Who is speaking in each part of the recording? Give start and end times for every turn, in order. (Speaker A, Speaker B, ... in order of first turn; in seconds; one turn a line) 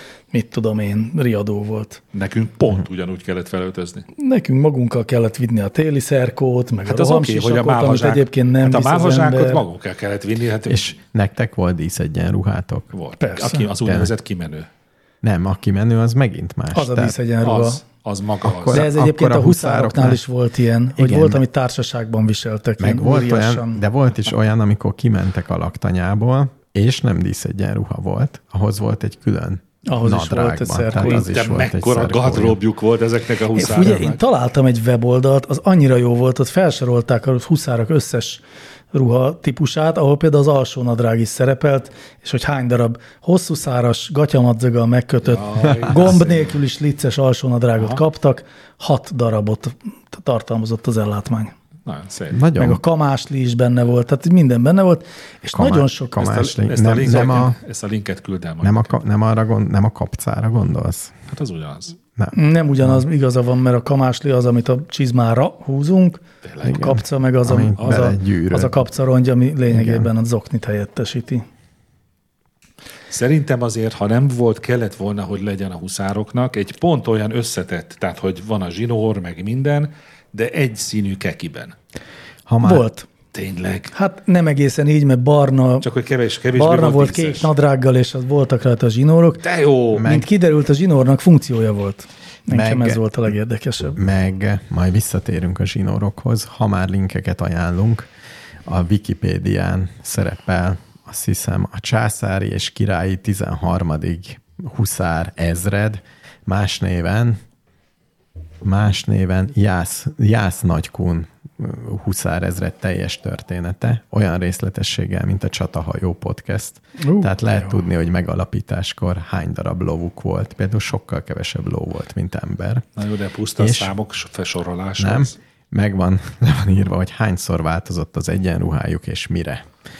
Speaker A: 0.3-2.0
Speaker B: 2.1-4.1
Speaker A: 4.2-9.6
Speaker B: 6.9-11.0
Speaker C: 10.7-12.9
Speaker B: 12.9-14.7
Speaker A: 13.2-13.7
Speaker C: 13.8-14.1
Speaker C: 15.2-17.1
Speaker A: 16.7-17.8
Speaker B: 17.4-18.9
Speaker C: 18.4-20.2
Speaker A: 18.7-23.8
Speaker C: 21.0-21.4
Speaker C: 22.8-32.6
Speaker A: 29.9-31.3
Speaker B: 31.0-34.2
Speaker A: 33.5-51.5
Speaker B: 45.2-46.6
Speaker B: 51.9-52.4
Speaker C: 52.3-52.8
Speaker A: 52.6-56.2
Speaker C: 55.5-57.6
Speaker B: 56.2-59.0
Speaker C: 58.6-61.2
Speaker B: 61.3-62.0
Speaker C: 62.2-63.0
Speaker A: 62.3-71.4
Speaker B: 66.4-66.8
Speaker C: 66.6-68.8
Speaker B: 67.8-68.1
Speaker C: 69.7-70.1
Speaker B: 73.1-81.8
Speaker C: 82.5-82.8
Speaker A: 82.6-83.1
Speaker B: 83.3-83.9
Speaker A: 83.9-85.9
Speaker B: 85.8-87.5
Speaker A: 86.5-89.4
Speaker B: 89.4-90.1
Speaker C: 89.9-90.3
Speaker A: 90.0-94.0
Speaker C: 92.5-93.0
Speaker C: 94.0-98.1
Speaker C: 98.7-107.4
Speaker C: 108.6-122.9
Speaker A: 117.0-117.8
Speaker B: 123.0-125.4
Speaker C: 123.6-123.9
Speaker C: 125.0-129.7